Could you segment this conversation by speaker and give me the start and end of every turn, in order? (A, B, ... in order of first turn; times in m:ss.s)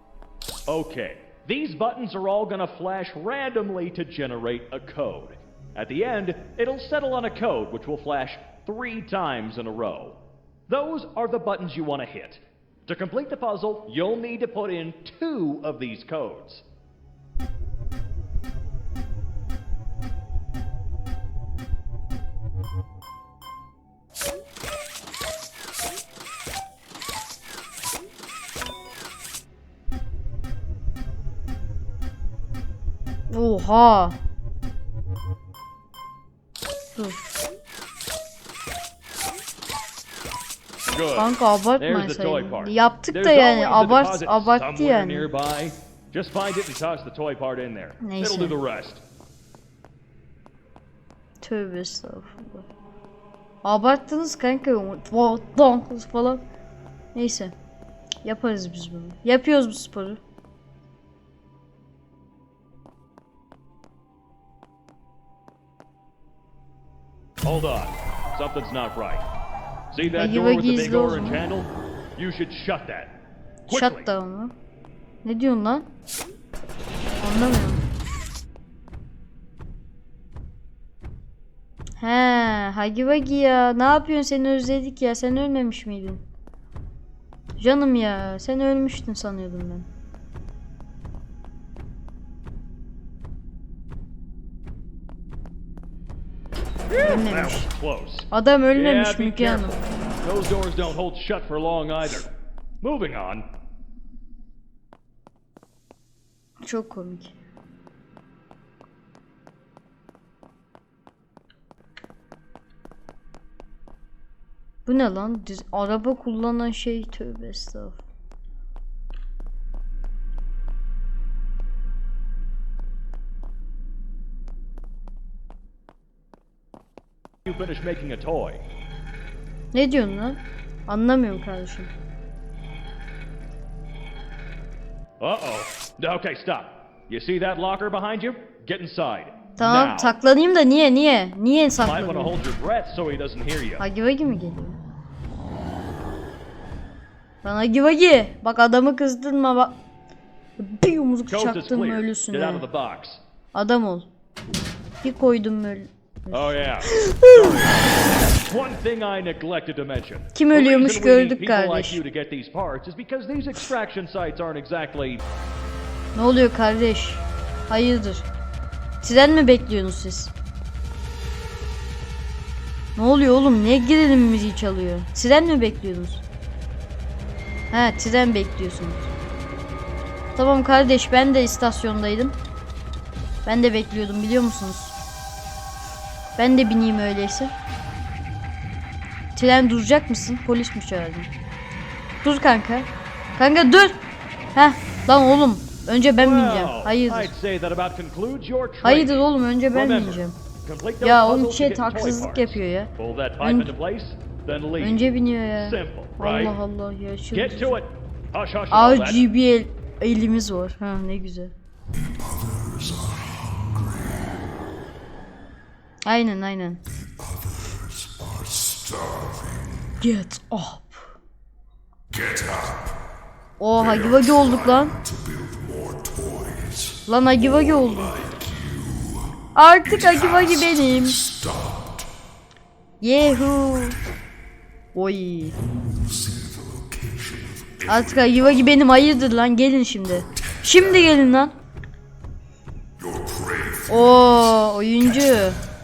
0:00.7-0:16.6 A
0:33.3-0:34.2 B
0:36.9-0:37.2 B
0:40.9-0:49.0 A
0:41.1-0:45.3 B
0:48.0-0:48.6 B
0:51.4-0:52.6 B
0:53.6-0:56.4 B
0:57.1-0:57.5 B
0:58.2-1:00.2 B
1:07.4-1:09.2 A
1:09.9-1:13.1 A
1:10.1-1:11.4 B
1:13.7-1:14.1 A
1:13.7-1:14.5 B
1:15.2-1:15.8 B
1:17.2-1:17.8 B
1:22.0-1:26.2 B
1:27.6-1:29.9 B
1:36.9-1:42.3 A
1:37.0-1:37.7 B
1:38.3-1:39.8 B
1:42.8-1:43.4 A
1:46.6-1:47.3 B
1:54.8-1:58.0 B
2:07.4-2:08.6 A
2:09.7-2:11.9 B
2:15.2-2:20.2 A
2:19.6-2:22.4 B
2:21.8-2:23.8 A
2:23.8-2:24.8 B
2:27.4-2:29.8 B
2:30.6-2:32.7 B
2:31.3-2:33.2 A
2:33.5-2:34.1 B
2:35.0-2:37.6 B
2:36.3-2:38.0 A
2:38.5-2:45.2 A
2:40.3-2:42.0 B
2:46.1-2:48.3 B
2:49.0-2:50.3 B
2:53.0-2:56.2 B
2:57.7-2:59.1 B
3:00.3-3:02.4 B
3:03.4-3:04.9 B
3:06.4-3:07.5 B
3:09.3-3:11.3 B
3:12.2-3:14.0 B
3:14.5-3:17.3 B
3:16.2-3:26.6 A
3:18.8-3:20.4 B
3:21.0-3:23.7 B
3:24.8-3:27.8 B
3:27.3-3:29.3 A
3:28.7-3:31.5 B
3:31.9-3:34.4 C
3:36.0-3:36.8 B
3:36.9-3:40.0 C
3:40.0-3:41.0 B
3:42.1-3:43.0 C
3:43.6-3:45.0 B
3:43.8-3:52.1 C
3:47.1-3:48.2 B
3:49.5-3:51.2 B
3:53.0-3:54.0 B
3:54.9-3:55.6 B
3:55.6-3:58.8 C
3:57.9-4:01.5 B
4:00.1-4:01.2 C
4:03.0-4:04.6 C
4:03.9-4:05.6 B